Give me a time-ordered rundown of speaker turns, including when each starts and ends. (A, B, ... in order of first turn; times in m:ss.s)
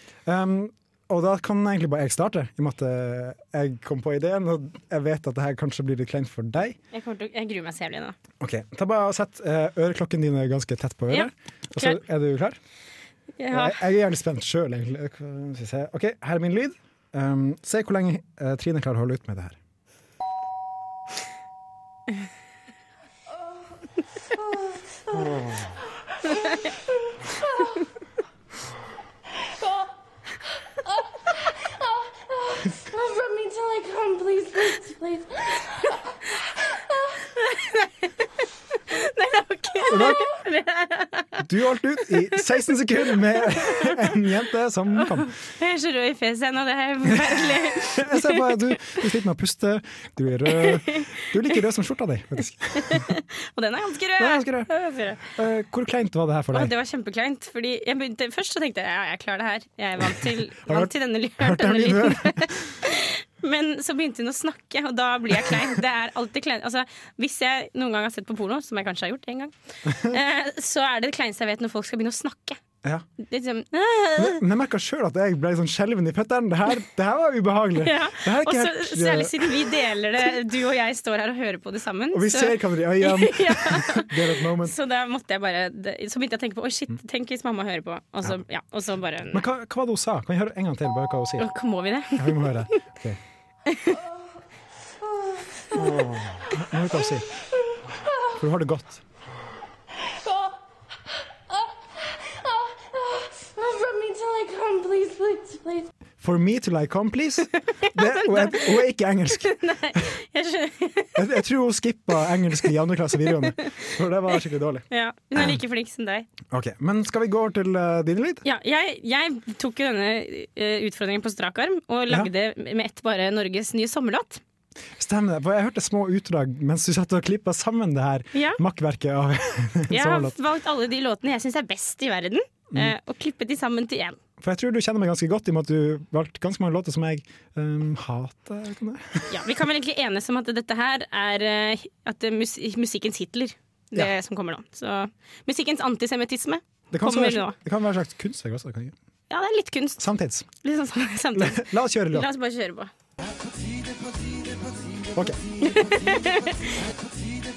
0:00.2-0:06.8 A
0:06.9-0:08.2 B
0:08.4-0:12.6 A
0:11.1-0:12.0 B
0:13.4-0:13.8 B
0:13.5-0:19.6 A
0:25.1-0:25.7 A
0:32.9-0:35.3 C
0:37.4-0:37.9 B
0:38.9-0:41.4 B
0:39.9-0:40.3 A
0:41.4-0:45.3 A
0:42.1-0:42.4 B
0:43.0-0:44.2 B
0:45.0-0:49.0 B
0:47.1-0:53.1 A
0:50.5-0:51.2 B
0:52.7-0:55.3 B
0:54.2-0:54.7 A
0:55.2-0:56.7 A
0:56.5-1:12.6 B
1:00.0-1:02.6 A
1:09.8-1:10.2 A
1:13.2-1:14.4 B
1:14.2-1:19.6 A
1:17.8-1:29.4 B
1:22.1-1:24.8 A
1:29.3-1:31.5 A
1:31.4-1:32.6 B
1:32.1-1:33.2 A
1:33.7-1:34.0 B
1:35.7-1:37.3 A
1:38.3-1:39.0 A
1:43.1-1:45.8 C
1:46.2-1:50.0 A
1:47.7-1:51.2 B
1:51.2-1:55.6 A
1:54.9-1:56.3 B
1:56.5-1:58.4 A
1:58.4-2:04.4 B
2:05.0-2:10.3 A
2:08.3-2:08.6 B
2:09.9-2:14.2 B
2:14.4-2:19.5 A
2:19.3-2:27.6 B
2:26.9-2:28.9 A
2:29.3-2:30.0 B
2:30.0-2:30.5 A
2:30.6-2:32.9 B
2:31.3-2:32.3 A
2:35.1-2:35.4 A
2:35.6-2:36.8 B